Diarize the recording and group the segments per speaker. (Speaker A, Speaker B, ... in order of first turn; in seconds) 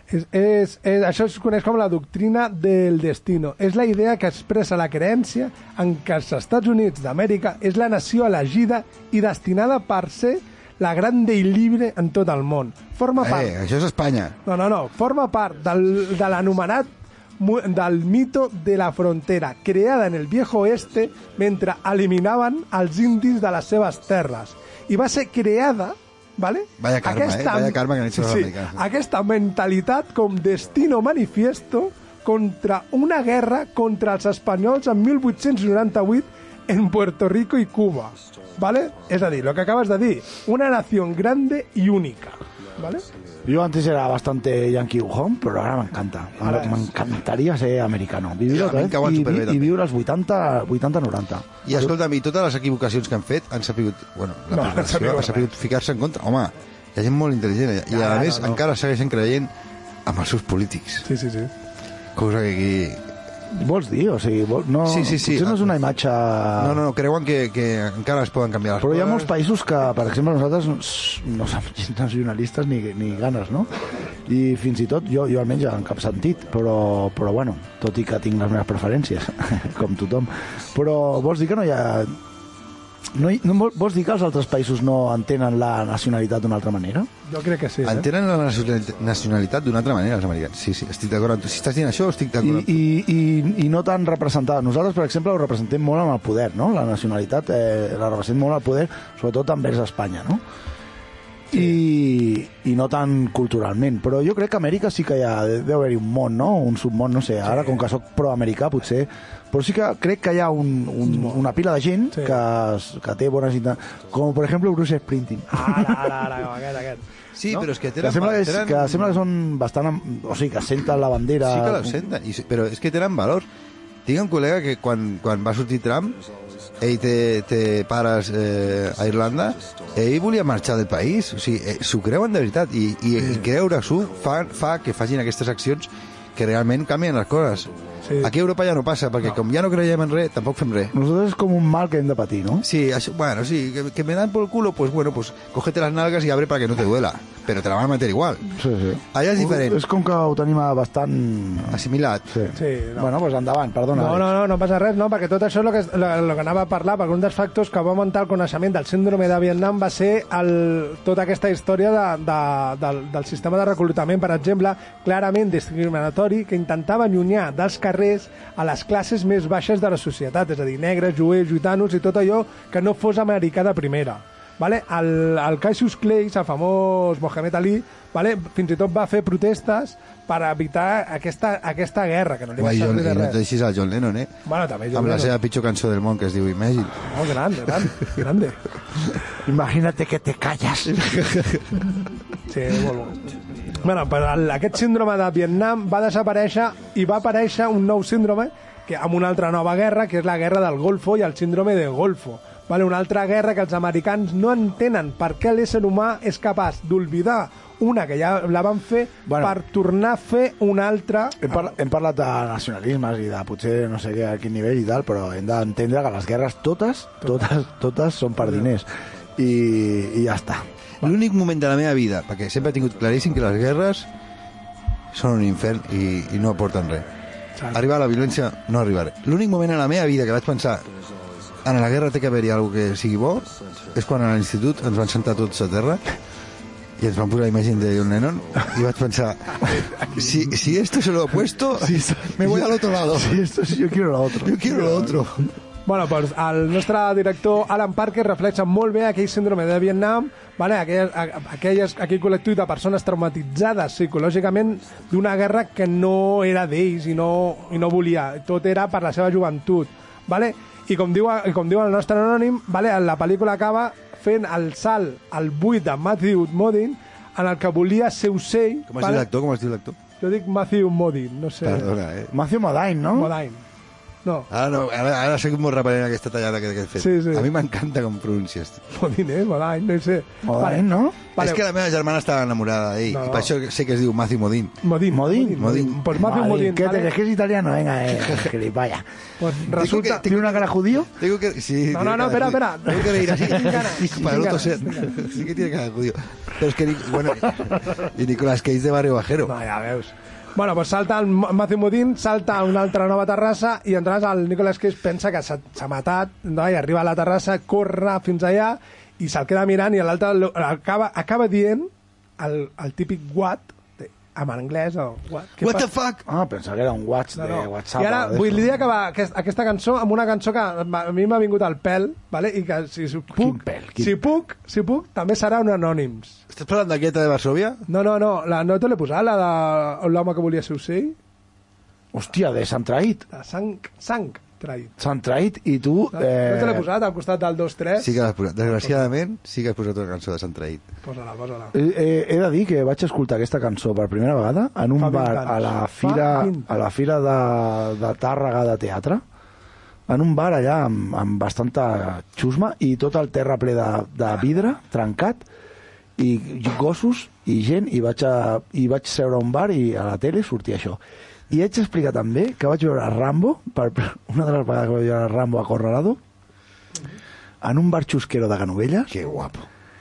Speaker A: 0.1-13.5, 14.4-43.0, 46.4-46.8, 54.5-55.5, 58.0-58.3, 61.1-61.5, 87.3-88.1, 107.5-107.8, 111.1-111.4, 112.1-112.4, 115.5-117.0, 138.0-138.3, 152.5-153.1, 153.9-183.4, 184.5-185.3, 187.1-188.6, 192.5-211.7, 239.7-240.3, 245.9-269.3, 270.2-271.9, 273.1-273.6, 277.0-277.5, 278.9-281.6, 283.1-283.5, 284.8-287.1, 289.4-290.3, 291.9-295.1, 299.5-315.9, 317.4-326.4, 327.9-331.2, 333.3-334.9, 336.1-338.1, 338.7-339.1, 341.0-341.7, 345.0-346.7
Speaker B: 13.2-14.4, 26.8-28.8, 48.5-49.7, 51.6-59.5, 60.1-61.1, 62.1-63.0, 64.9-65.7, 66.6-69.3, 87.8-92.7, 117.3-119.2, 121.4-123.5, 124.1-126.2, 126.8-140.9, 142.6-148.5, 149.1-149.8, 151.7-152.3, 182.6-184.3, 184.9-187.1, 190.9-191.9, 221.0-224.1, 225.1-227.1, 227.7-230.9, 231.6-236.0, 237.0-243.4, 244.4-245.5, 268.9-270.0, 271.6-272.3, 274.5-278.8, 281.4-284.8, 285.6-286.0, 289.8-290.5, 291.2-299.5, 315.6-316.2, 326.5-327.8, 338.0-340.9, 369.1-369.7
Speaker C: 43.5-51.9, 57.9-58.6, 63.5-66.8, 68.8-73.7, 74.3-82.2, 83.1-87.1, 92.4-100.4, 101.5-116.2, 117.5-122.1, 140.9-142.7, 148.6-154.3, 189.4-191.0, 209.3-209.6, 211.4-220.7, 241.8-245.2, 272.3-273.3, 280.4-281.2, 285.1-289.1, 289.8-291.1, 316.2-318.7, 323.3-324.3, 332.1-333.3, 335.0-336.9, 341.7-349.2, 350.1-355.4, 356.2-366.2, 367.6-369.2